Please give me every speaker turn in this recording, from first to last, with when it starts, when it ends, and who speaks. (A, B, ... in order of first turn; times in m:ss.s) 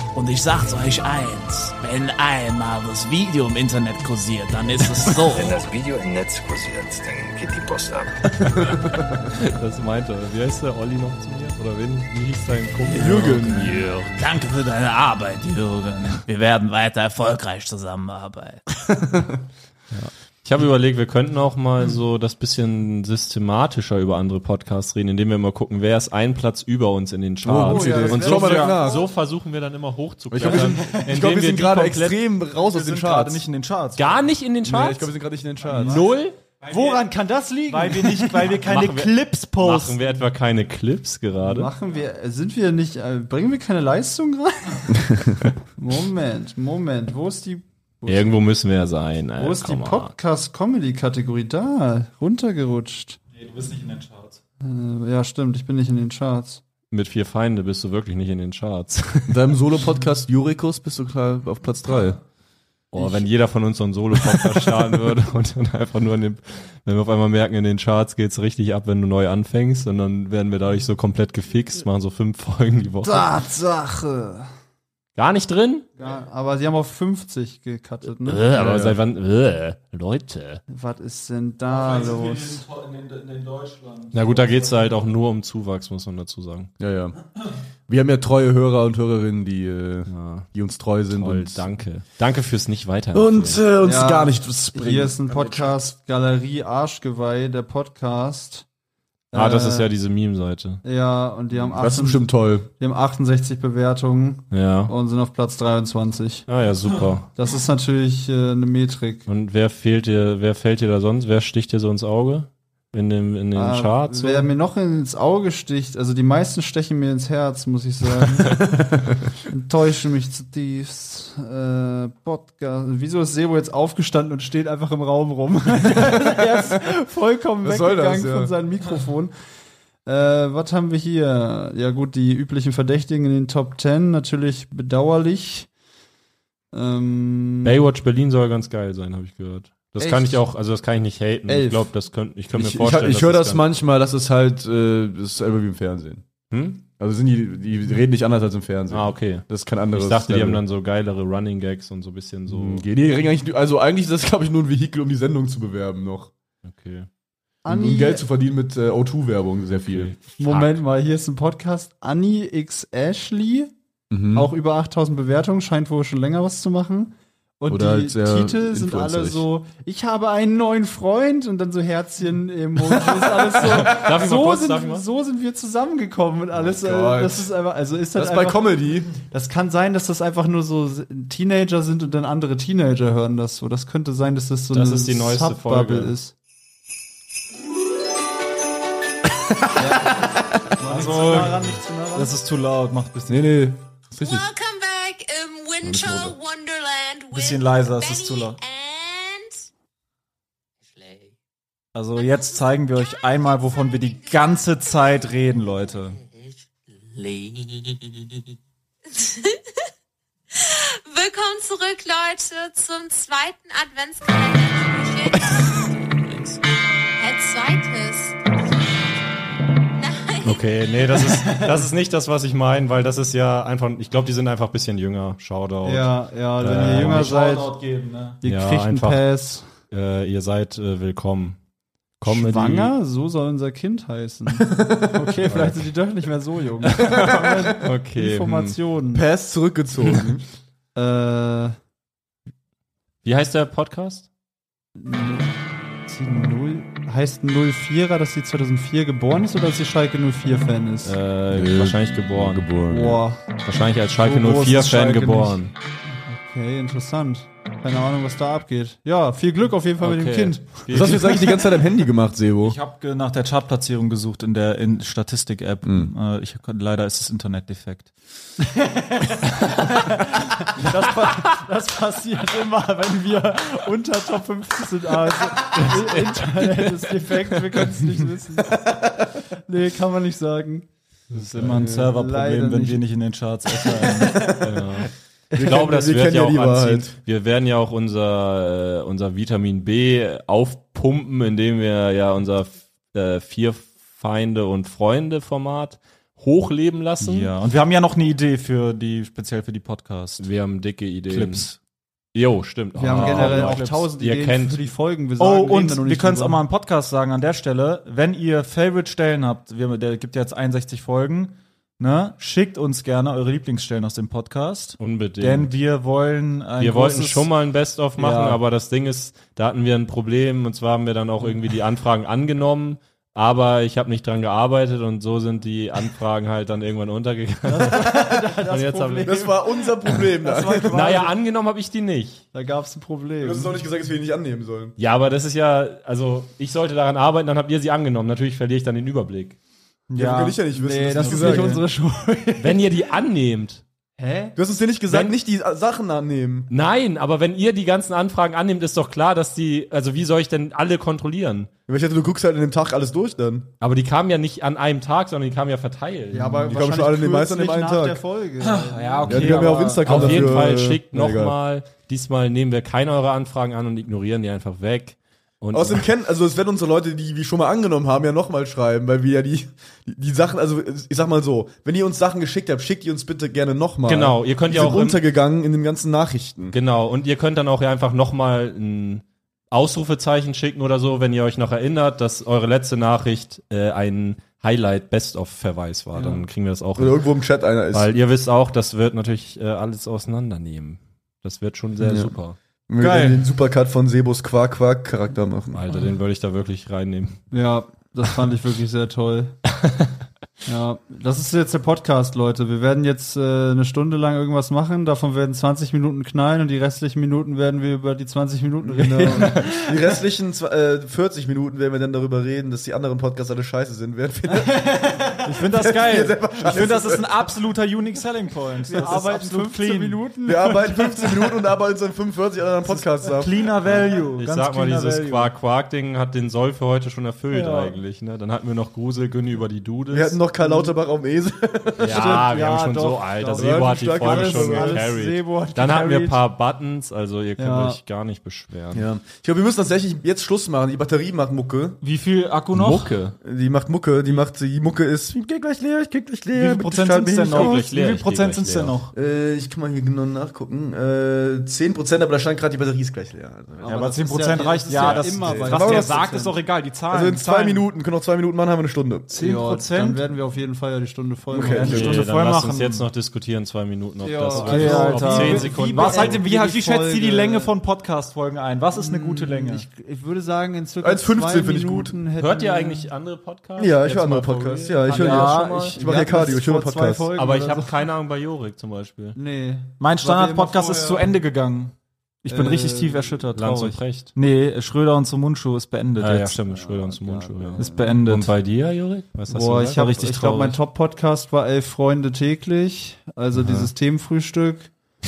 0:00.1-0:05.6 A
0:05.3-0:08.4 B
0:08.6-0:09.1 C
0:08.8-0:14.1 D
0:12.9-0:13.8 C
0:13.7-0:18.6 A
0:19.9-0:32.2 D
0:27.4-0:29.0 C
0:27.6-0:28.8 E
0:28.3-0:28.8 F
0:30.3-0:33.4 C
0:32.5-0:34.2 F
0:34.0-0:35.1 D
0:34.6-0:36.0 C
0:35.8-0:36.4 D
0:36.6-0:38.5 E
0:36.7-0:37.0 F
0:37.7-0:40.0 F
0:38.5-0:41.7 D
0:41.4-0:45.0 E
0:45.8-0:48.4 E
0:48.0-0:50.1 D
0:49.4-0:53.2 E
0:53.3-0:54.4 F
0:54.6-0:56.6 E
0:56.9-0:59.4 D
0:59.3-1:02.2 C
1:02.9-1:13.3 D
1:13.0-1:14.5 E
1:15.2-1:15.9 D
1:16.0-1:18.5 E
1:18.2-1:20.6 D
1:18.5-1:19.0 C
1:20.7-1:22.6 E
1:21.7-1:24.9 F
1:24.1-1:26.7 D
1:26.8-1:27.2 C
1:27.9-1:31.6 C
1:30.1-1:30.5 D
1:31.1-1:33.6 D
1:33.1-1:35.8 C
1:33.8-1:38.6 E
1:39.3-1:39.9 E
1:39.3-1:40.8 D
1:40.8-1:46.4 E
1:41.7-1:42.7 C
1:44.5-1:44.9 D
1:46.5-1:47.3 D
1:47.3-1:49.2 E
1:49.3-1:54.5 D
1:53.5-1:58.7 E
1:59.5-2:09.3 E
2:07.6-2:08.5 C
2:10.0-2:15.7 E
2:16.7-2:17.8 E
2:17.6-2:23.6 D
2:20.0-2:20.3 E
2:21.5-2:21.9 E
2:22.5-2:26.2 C
2:26.5-2:26.8 D
2:27.0-2:30.6 C
2:28.9-2:32.8 D
2:32.5-2:36.3 C
2:36.6-2:37.1 D
2:37.6-2:38.2 E
2:37.7-2:40.1 C
2:39.9-2:40.8 D
2:40.4-2:43.7 E
2:44.1-2:44.5 C
2:44.3-3:06.3 E
2:47.7-2:49.4 C
2:53.6-2:55.0 D
2:56.5-2:57.5 C
2:58.1-2:59.2 C
3:04.7-3:06.1 D
3:09.8-3:10.2 E
3:10.8-3:12.3 E
3:10.8-3:11.6 F
3:12.1-3:13.6 F
3:13.3-3:14.4 C
3:14.2-3:19.7 G
3:15.8-3:16.3 C
3:17.3-3:18.6 F
3:21.9-3:26.2 F
3:22.1-3:25.3 G
3:27.2-3:27.7 A
3:29.1-3:29.6 G
3:30.5-3:35.9 G
3:37.2-3:38.4 G
3:39.9-3:40.9 G
3:40.4-3:47.3 D
3:45.8-3:47.7 E
3:46.8-3:48.4 F
3:48.4-3:49.7 E
3:48.4-3:49.3 D
3:49.9-3:51.6 D
3:52.2-3:52.9 D
3:52.2-3:59.3 E
3:54.7-3:55.1 C
3:55.4-3:55.8 D
3:56.8-3:58.8 D
3:57.0-3:57.6 C
3:59.1-4:00.4 C
4:00.9-4:01.7 E
4:03.2-4:04.3 D
4:05.0-4:11.2 E
4:11.0-4:12.8 D
4:11.5-4:13.2 C
4:12.8-4:13.4 E
4:13.6-4:15.7 D
4:14.2-4:15.6 F
4:16.2-4:20.8 E
4:20.0-4:21.6 D
4:20.9-4:22.8 C
4:22.6-4:28.1 F
4:25.8-4:26.1 C
4:28.6-4:39.0 E
4:35.8-4:36.9 D
4:39.7-4:40.8 E
4:41.3-4:44.4 F
4:41.3-4:41.8 D
4:41.7-4:42.1 C
4:41.7-4:43.0 E
4:44.0-4:44.8 C
4:44.6-4:57.5 D
4:45.5-4:47.1 C
4:57.2-5:00.4 F
5:00.4-5:01.7 D
5:01.3-5:01.8 F
5:02.3-5:04.9 D
5:03.0-5:06.6 E
5:03.1-5:04.0 F
5:05.4-5:17.5 F
5:15.0-5:15.7 D
5:16.8-5:30.2 D
5:18.2-5:18.6 F
5:27.7-5:31.3 E
5:29.2-5:31.2 C
5:30.9-5:32.4 D
5:32.5-5:33.8 E
5:33.4-5:34.9 C
5:35.0-5:39.6 D
5:40.1-5:40.6 F
5:40.1-5:41.8 C
5:40.7-5:43.0 E
5:41.2-5:41.7 F
5:42.6-5:43.8 D
5:44.2-5:44.5 E
5:44.5-5:46.7 C
5:45.1-5:45.3 D
5:46.7-5:51.7 D
5:51.9-5:53.7 C
5:53.8-5:56.7 D
5:56.3-6:00.0 E
5:56.6-5:58.2 C
5:58.6-6:00.5 F
5:59.2-6:01.6 C
5:59.2-6:06.0 D
6:05.7-6:16.8 C
6:14.0-6:15.2 D
6:16.7-6:27.2 D
6:27.0-6:28.1 C
6:27.9-6:32.6 D
6:32.0-6:32.3 C
6:32.9-6:35.9 C
6:33.0-6:33.4 F
6:35.7-6:37.4 D
6:37.5-6:39.6 E
6:39.8-6:40.1 D
6:40.6-6:49.6 E
6:48.8-6:57.3 C
6:54.8-6:55.3 E
6:55.4-7:00.2 F
6:58.9-7:01.4 E
7:00.4-7:03.6 C
7:02.9-7:05.5 F
7:04.4-7:10.4 D
7:07.5-7:07.9 E
7:10.1-7:12.5 C
7:10.6-7:10.9 E
7:12.0-7:19.1 D
7:12.0-7:16.4 E
7:13.5-7:15.1 C
7:17.6-7:18.0 E
7:18.9-7:22.0 C
7:22.0-7:23.2 F
7:22.7-7:23.3 D
7:23.4-7:27.8 C
7:26.5-7:29.1 F
7:27.5-7:29.0 D
7:29.1-7:33.9 C
7:33.8-7:36.6 E
7:33.8-7:37.9 F
7:35.4-7:36.1 C
7:37.1-7:39.3 C
7:39.3-7:42.1 E
7:39.3-7:40.2 F
7:41.5-7:42.2 C
7:41.5-7:43.1 F
7:41.8-7:46.4 D
7:44.2-7:47.7 E
7:44.6-7:49.8 F
7:48.9-7:53.1 E
7:51.0-7:52.1 C
7:52.4-7:55.5 D
7:53.8-7:57.3 C
7:55.1-7:58.0 E
7:55.1-7:56.0 F
7:57.4-7:59.4 D
7:59.3-8:01.4 E
8:00.0-8:06.6 F
8:02.5-8:03.4 E
8:03.5-8:04.3 D
8:06.2-8:10.0 D
8:06.6-8:08.2 E
8:07.8-8:08.5 F
8:09.5-8:14.9 E
8:09.9-8:10.8 F
8:13.5-8:13.9 D